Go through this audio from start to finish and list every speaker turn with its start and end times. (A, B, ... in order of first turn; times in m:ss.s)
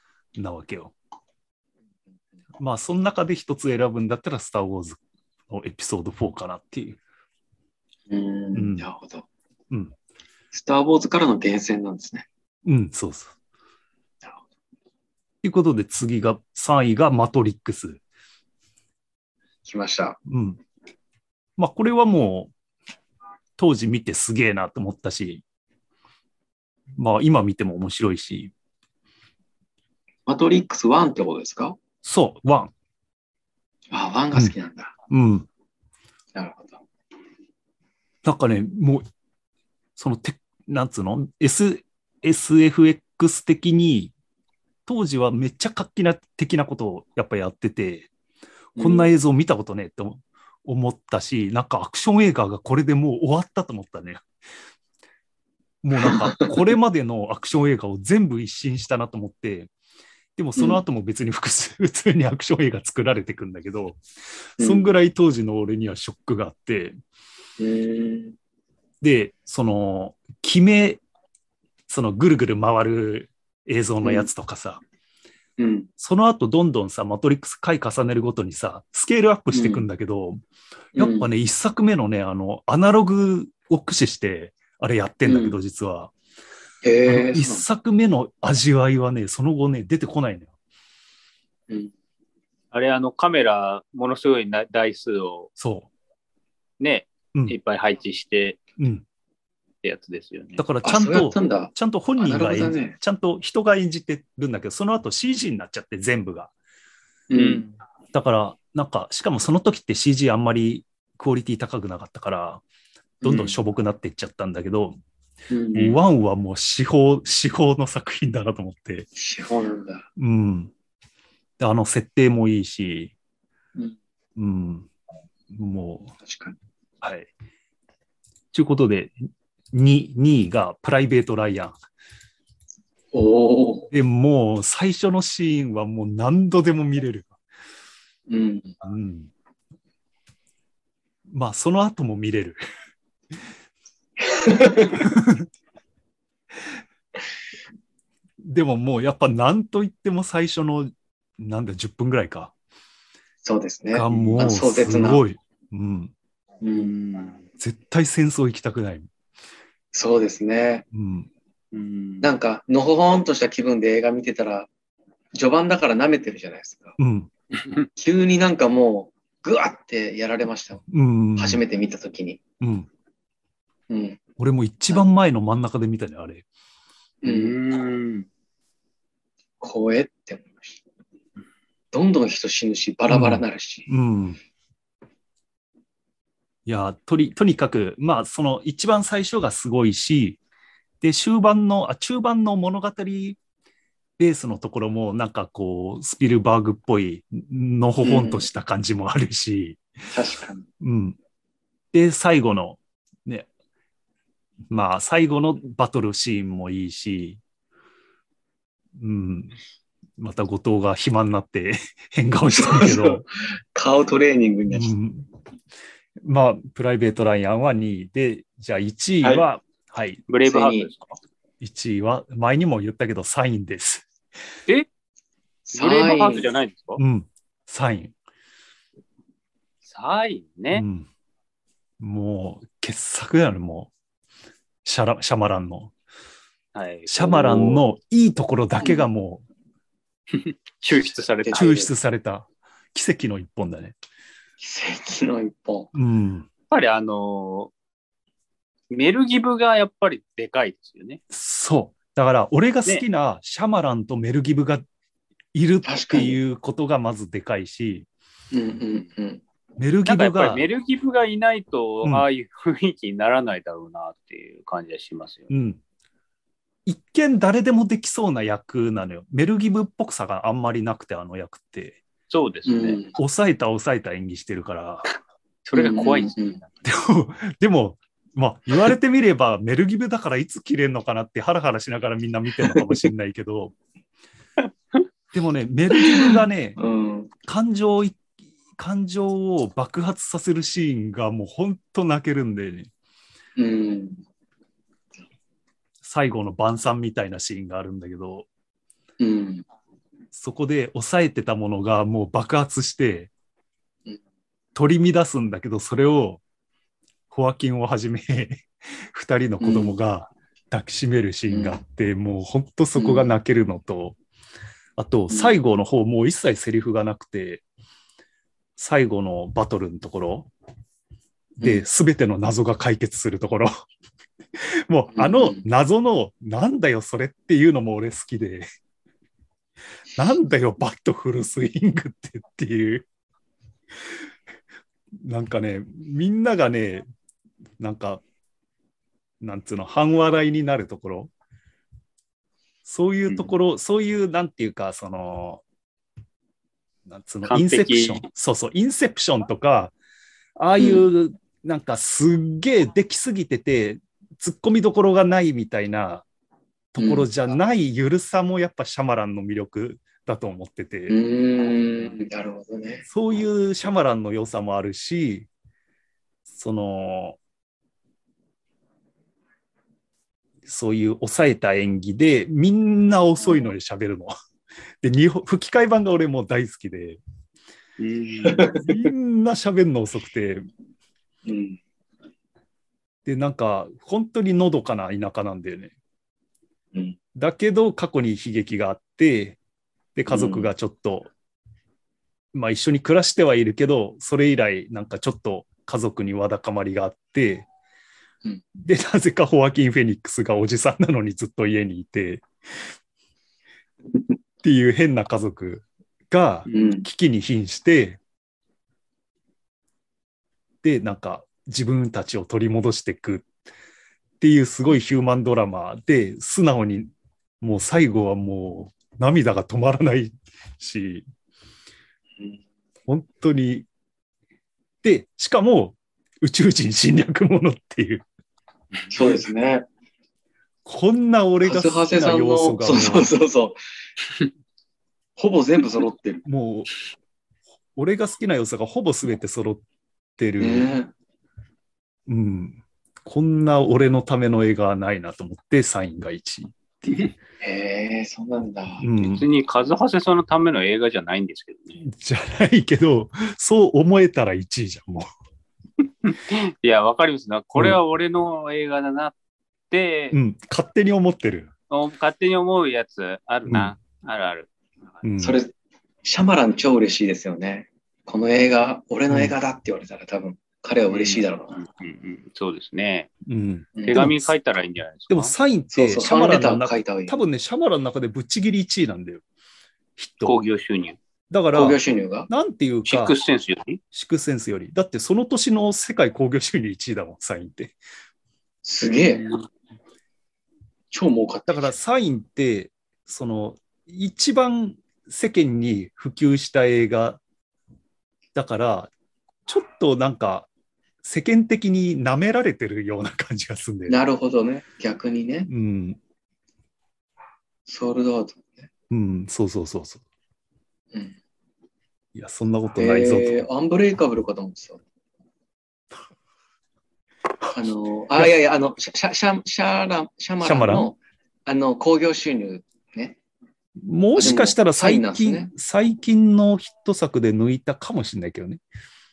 0:00.4-0:00.9 A
0:02.6-0:05.0 A
0:05.5-0:07.0 A
0:08.1-0:09.3 B
0:08.5-0:08.9 A
0:10.5-0:12.3 B
0:12.6-0:13.4 A
0:15.4-0:18.0 A
0:19.6-0:20.2 B
0:20.3-0:20.6 A
0:21.6-0:22.5 A
0:23.6-0:25.4 A
0:27.0-0:28.5 A
0:30.3-0:31.8 B
0:32.0-0:32.7 A
0:33.9-0:34.9 B
0:35.1-0:35.5 A
0:36.4-0:36.8 B
0:38.2-0:39.0 A
0:40.0-0:44.1 A
0:44.9-0:48.1 A
0:48.8-0:49.1 B
0:48.8-0:54.2 A
0:55.8-0:59.7 A
0:56.0-0:56.5 B
1:00.4-1:04.0 A
1:00.6-1:00.8 B
1:04.6-1:04.9 B
1:04.6-1:07.0 A
1:07.6-1:08.4 B
1:09.0-1:11.0 A
1:11.9-1:14.8 A
1:14.0-1:14.3 B
1:15.6-1:15.9 B
1:16.0-1:20.4 A
1:19.5-1:19.8 B
1:21.0-1:21.3 B
1:21.0-1:26.1 A
1:25.2-1:25.6 B
1:26.8-1:27.6 B
1:27.1-1:30.5 A
1:32.7-1:35.5 C
1:35.6-1:35.9 A
1:36.8-1:38.6 C
1:38.8-1:39.0 A
1:39.8-1:40.6 C
1:40.6-1:46.5 A
1:40.8-1:43.0 B
1:47.3-1:47.7 B
1:47.3-1:47.7 C
1:48.1-1:52.6 A
1:53.2-1:53.6 B
1:53.2-1:55.0 A
1:55.5-1:56.0 B
1:55.7-1:59.1 A
1:59.2-2:00.1 B
2:00.2-2:00.7 A
2:01.6-2:03.1 A
2:04.4-2:04.9 A
2:05.5-2:06.2 A
2:06.2-2:06.6 B
2:07.0-2:07.3 A
2:08.5-2:11.8 A
2:13.1-2:13.9 B
2:13.9-2:17.3 A
2:18.3-2:18.7 B
2:18.8-2:19.3 A
2:21.3-2:22.6 A
2:24.2-2:25.0 B
2:25.0-2:25.5 A
2:28.4-2:32.5 A
2:33.4-2:35.2 B
2:33.9-2:36.1 A
2:36.6-2:36.9 B
2:36.7-2:37.4 C
2:37.6-2:39.1 A
2:39.9-2:40.8 B
2:40.9-2:41.3 A
2:41.7-2:42.3 C
2:42.2-2:44.7 B
2:45.3-2:47.0 B
2:47.0-2:47.3 A
2:47.6-2:47.9 C
2:48.0-2:50.8 B
2:50.9-2:51.6 A
2:51.4-2:52.4 B
2:52.6-2:52.9 A
2:53.9-2:54.2 B
2:54.4-2:56.4 A
2:57.2-2:57.6 B
2:57.2-2:58.3 C
2:59.6-3:00.8 B
3:01.9-3:03.9 B
3:03.1-3:04.4 A
3:06.7-3:10.4 A
3:11.0-3:13.4 A
3:14.2-3:19.8 A
3:18.0-3:18.5 B
3:20.1-3:20.6 B
3:20.8-3:21.2 A
3:21.9-3:23.5 A
3:24.7-3:27.4 A
3:29.0-3:29.6 A
3:30.2-3:33.2 A
3:32.5-3:34.9 B
3:34.7-3:35.3 A
3:36.2-3:40.2 A
3:40.3-3:41.2 C
3:40.4-3:40.9 B
3:41.6-3:44.1 A
3:45.7-3:46.5 B
3:45.8-3:47.0 C
3:47.0-3:48.1 A
3:49.9-3:50.8 C
3:50.7-3:51.1 A
3:52.0-3:53.9 A
3:54.8-3:55.9 A
3:56.8-3:57.8 C
3:57.1-3:59.4 A
4:00.3-4:01.7 C
4:01.5-4:01.9 B
4:01.5-4:04.0 A
4:04.6-4:05.9 B
4:05.9-4:06.5 A
4:06.7-4:07.7 C
4:08.9-4:11.2 C
4:11.3-4:14.8 A
4:15.5-4:18.1 A
4:15.8-4:16.4 B
4:18.5-4:19.4 B
4:19.8-4:20.7 A
4:20.1-4:25.5 C
4:25.5-4:25.8 A
4:26.9-4:32.0 A
4:32.3-4:33.0 C
4:32.7-4:33.2 B
4:33.2-4:35.1 A
4:35.6-4:36.8 C
4:35.7-4:36.6 B
4:36.8-4:43.7 A
4:45.3-4:46.8 A
4:46.2-4:47.3 B
4:47.4-4:48.2 A
4:48.8-4:52.9 A
4:53.6-4:54.2 B
4:56.0-4:58.5 A
4:59.2-4:59.6 B
5:00.3-5:03.3 A
5:04.8-5:06.4 A
5:07.3-5:14.2 A
5:09.6-5:10.0 B
5:11.5-5:11.8 B
5:13.0-5:13.3 B
5:15.0-5:17.6 A
5:15.3-5:15.6 B
5:18.8-5:20.5 A
5:21.6-5:21.8 B
5:21.6-5:23.7 A
5:24.9-5:28.7 A
5:25.1-5:25.6 B
5:30.2-5:33.1 A
5:35.2-5:37.1 A
5:37.8-5:38.2 A
5:39.4-5:41.3 A
5:42.9-5:45.6 A
5:47.1-5:49.9 A
5:47.5-5:48.2 C
5:50.6-5:56.2 A
5:50.8-5:51.1 B
5:56.9-6:01.2 A
5:57.0-5:57.3 B
6:01.1-6:03.0 B
6:03.1-6:05.5 A
6:06.6-6:07.4 A
6:10.7-6:14.3 A
6:15.0-6:17.2 A
6:18.0-6:18.6 C
6:18.4-6:19.1 B
6:18.7-6:20.6 A
6:21.4-6:21.8 B
6:23.2-6:25.9 A
6:27.4-6:29.6 A
6:30.2-6:31.3 A
6:30.3-6:30.7 B
6:32.5-6:37.7 A
6:38.8-6:42.4 A
6:44.6-6:48.2 A
6:46.7-6:47.1 B
6:50.8-6:53.5 A
6:54.4-6:57.1 A
6:57.6-7:01.2 A
7:03.1-7:03.9 A
7:05.0-7:08.2 A
7:09.1-7:09.8 B
7:10.8-7:13.3 A
7:11.6-7:13.8 B
7:15.4-7:16.4 B
7:16.4-7:16.9 A
7:18.0-7:19.8 A
7:20.4-7:20.9 A
7:20.6-7:21.1 B
7:22.3-7:27.3 A
7:27.6-7:29.0 B
7:29.0-7:29.4 A
7:29.2-7:32.0 C
7:32.0-7:35.3 A
7:36.2-7:39.4 C
7:39.9-7:40.4 C
7:40.3-7:41.7 A
7:41.9-7:44.7 C
7:43.7-7:43.9 A
7:45.2-7:45.6 A
7:45.4-7:45.7 B
7:46.2-7:51.8 B
7:51.1-7:53.3 C
7:53.5-7:54.5 A
7:54.0-7:54.3 B
7:54.0-7:55.5 C
7:55.3-7:59.4 A
7:55.9-7:57.4 B
8:00.2-8:00.6 A
8:00.4-8:01.2 C
8:01.5-8:03.4 A
8:01.7-8:02.5 B
8:03.1-8:04.0 C
8:04.1-8:08.0 A
8:08.8-8:09.5 B
8:09.2-8:09.7 C
8:11.1-8:11.9 B
8:11.7-8:17.4 A
8:18.6-8:19.1 A
8:19.7-8:20.7 A
8:21.2-8:24.2 A
8:24.1-8:25.7 B
8:25.7-8:26.2 A
8:27.9-8:28.9 B
8:29.1-8:30.2 A
8:31.1-8:31.4 B
8:32.4-8:33.7 A
8:33.0-8:35.0 B
8:37.7-8:43.4 B
8:40.6-8:41.1 A
8:44.0-8:48.8 A
8:44.4-8:45.7 B